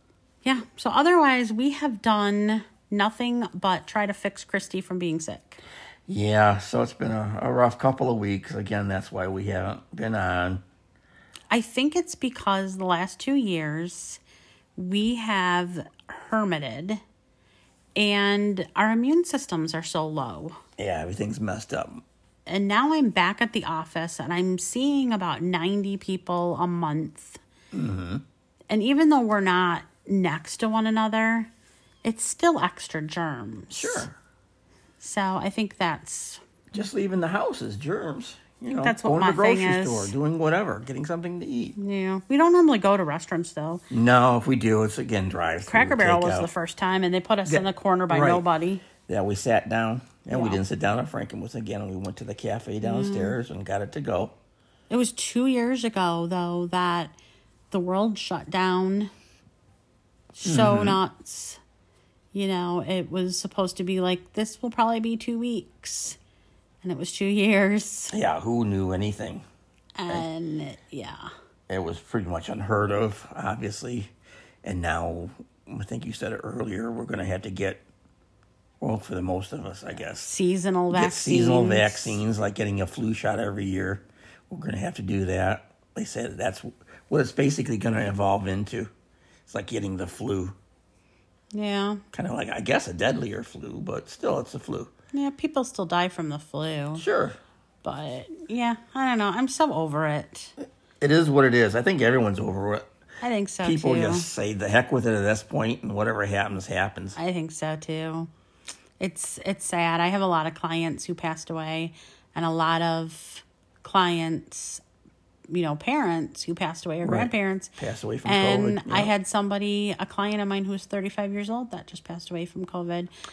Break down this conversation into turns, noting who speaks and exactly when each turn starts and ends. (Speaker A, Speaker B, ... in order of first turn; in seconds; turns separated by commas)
Speaker A: 0.4-5.6, Speaker B: 6.1-10.6, Speaker A: 11.5-14.2, Speaker A: 14.8-17.0, Speaker A: 18.0-20.6, Speaker B: 20.8-22.0, Speaker A: 22.5-27.4, Speaker B: 27.7-28.2, Speaker A: 28.7-31.5, Speaker A: 32.0-34.1, Speaker B: 33.7-34.1, Speaker A: 35.0-36.4, Speaker B: 36.7-41.8, Speaker A: 38.8-40.1, Speaker A: 41.8-43.8, Speaker B: 43.9-46.5, Speaker A: 45.7-48.8, Speaker B: 47.5-48.4, Speaker B: 49.0-54.3, Speaker A: 50.3-50.6, Speaker A: 52.8-53.4, Speaker A: 54.9-57.1, Speaker A: 57.7-59.1, Speaker A: 60.3-61.6, Speaker B: 60.4-61.0, Speaker A: 62.3-66.2, Speaker A: 66.8-68.1, Speaker B: 68.1-69.5, Speaker A: 70.0-71.3, Speaker B: 71.7-74.1, Speaker B: 74.6-77.8, Speaker B: 78.8-80.3, Speaker A: 80.0-82.2, Speaker B: 80.9-88.9, Speaker B: 89.5-90.6, Speaker A: 91.5-92.0, Speaker B: 92.1-94.9, Speaker A: 95.1-97.0, Speaker B: 97.0-97.4, Speaker A: 97.8-100.5, Speaker B: 101.0-102.9, Speaker A: 103.2-104.3, Speaker B: 103.6-107.2, Speaker A: 107.2-108.3, Speaker A: 109.0-114.8, Speaker A: 115.5-117.7, Speaker B: 117.0-119.1, Speaker A: 118.2-123.1